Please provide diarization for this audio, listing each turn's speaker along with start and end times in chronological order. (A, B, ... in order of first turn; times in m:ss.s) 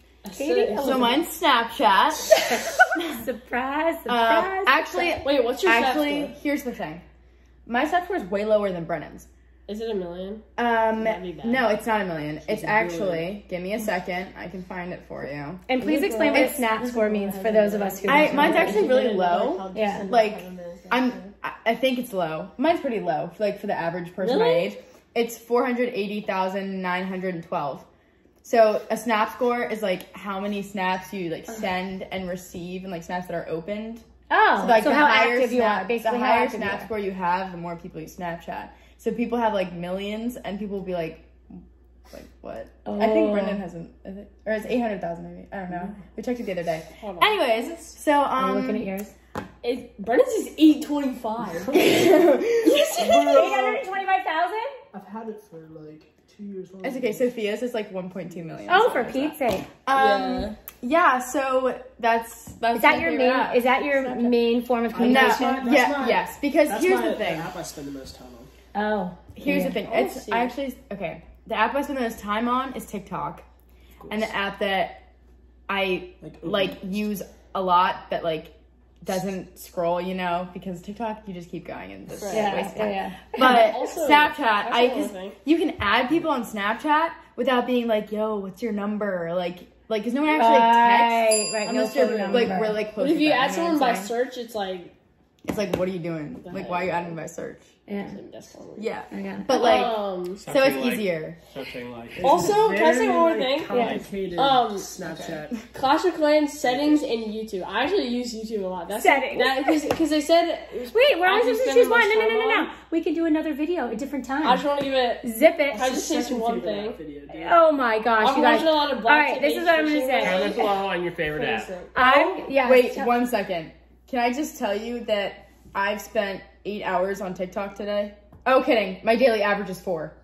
0:00.2-0:01.2 A
0:00.3-0:01.2 B
0:00.8-0:02.4 C
0:02.3-0:05.2 B
0:02.9-0:03.2 C
0:04.1-0:07.0 C
0:05.2-0:06.4 A
0:07.6-0:09.3 C
0:09.7-0:11.7 A
0:10.6-0:15.7 C
0:12.4-0:13.3 D
0:15.7-0:18.9 B
0:15.8-0:21.3 A
0:16.3-0:16.6 C
0:18.0-0:27.8 C
0:19.7-0:20.0 B
0:24.2-0:24.7 A
0:28.4-0:34.0 C
0:34.3-0:36.9 B
0:34.6-0:41.6 C
0:42.1-0:48.9 C
0:42.8-0:43.6 B
0:47.0-0:47.4 A
0:48.3-0:49.1 B
0:49.6-0:51.8 A
0:51.7-0:53.3 C
0:52.9-0:53.9 D
0:53.0-0:54.7 B
0:54.9-0:57.3 D
0:56.8-0:59.3 C
0:58.2-0:59.2 D
0:58.7-0:59.7 B
0:59.8-1:04.4 C
1:00.0-1:00.5 A
1:02.7-1:05.6 B
1:04.9-1:08.5 D
1:04.9-1:07.5 C
1:08.7-1:09.8 B
1:09.3-1:13.4 C
1:09.6-1:10.5 A
1:14.0-1:14.3 D
1:14.1-1:15.0 C
1:15.7-1:34.1 C
1:16.2-1:17.1 D
1:22.1-1:22.7 A
1:22.3-1:23.7 B
1:23.4-1:25.4 A
1:30.3-1:32.8 B
1:32.0-1:32.5 D
1:33.0-1:34.9 A
1:35.4-1:37.7 C
1:36.4-1:37.2 A
1:37.9-1:38.2 B
1:38.0-1:38.9 A
1:38.8-1:41.4 C
1:39.1-1:39.6 B
1:39.5-1:40.4 A
1:40.4-1:42.4 E
1:42.1-1:45.7 D
1:42.2-1:44.9 A
1:43.7-1:44.0 B
1:45.0-1:45.5 C
1:45.7-1:52.7 A
1:46.6-1:47.1 D
1:48.9-1:49.8 B
1:50.9-1:54.6 B
1:54.4-1:57.0 A
1:55.2-1:55.9 B
1:55.7-1:57.6 D
1:57.3-2:00.6 B
1:58.2-2:00.8 A
2:00.2-2:01.7 E
2:01.3-2:01.9 A
2:01.9-2:03.2 B
2:02.0-2:10.2 C